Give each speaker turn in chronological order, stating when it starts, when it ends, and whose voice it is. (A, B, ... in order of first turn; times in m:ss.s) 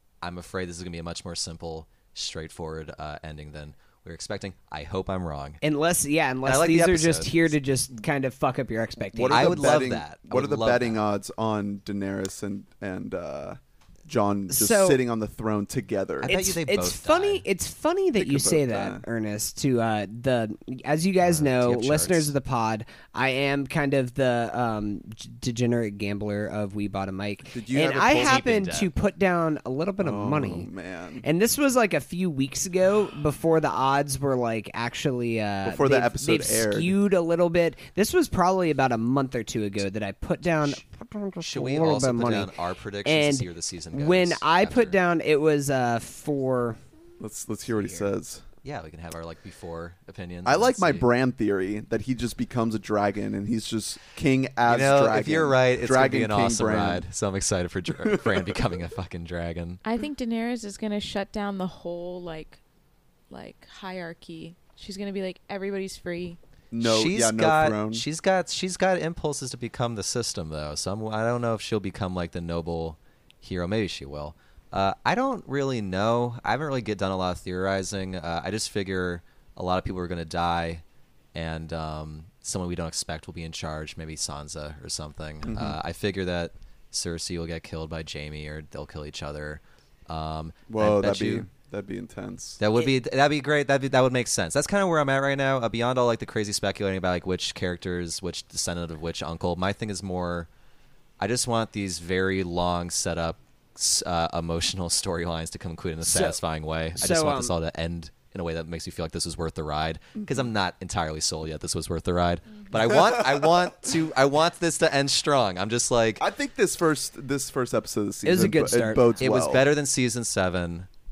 0:00.2-0:05.6 A
0:05.6-0:09.7 B
0:06.4-0:07.5 A
0:09.1-0:16.3 C
0:09.3-0:11.0 A
0:14.5-0:15.0 B
0:16.2-0:17.4 A
0:16.2-0:30.7 B
0:18.2-0:19.0 C
0:21.2-0:22.3 A
0:27.5-0:28.5 C
0:27.9-0:28.9 A
0:30.0-0:31.2 C
0:31.2-0:42.5 B
0:35.6-0:37.0 C
0:41.4-0:45.0 A
0:43.0-0:46.8 B
0:47.2-0:48.4 C
0:47.8-0:48.0 B
0:48.6-0:51.0 A
0:50.4-0:57.0 C
0:54.6-0:59.8 A
0:58.0-0:58.6 C
0:59.8-1:02.6 D
1:03.3-1:06.4 D
1:06.7-1:08.0 C
1:06.8-1:20.8 A
1:21.3-1:31.5 A
1:25.4-1:25.8 C
1:30.7-1:32.6 C
1:32.6-1:40.5 A
1:41.2-1:56.2 A
1:46.0-1:46.4 B
1:46.9-1:47.5 B
1:50.2-1:50.4 C
1:56.2-1:59.6 C
1:58.2-1:59.1 B
1:59.2-2:00.9 A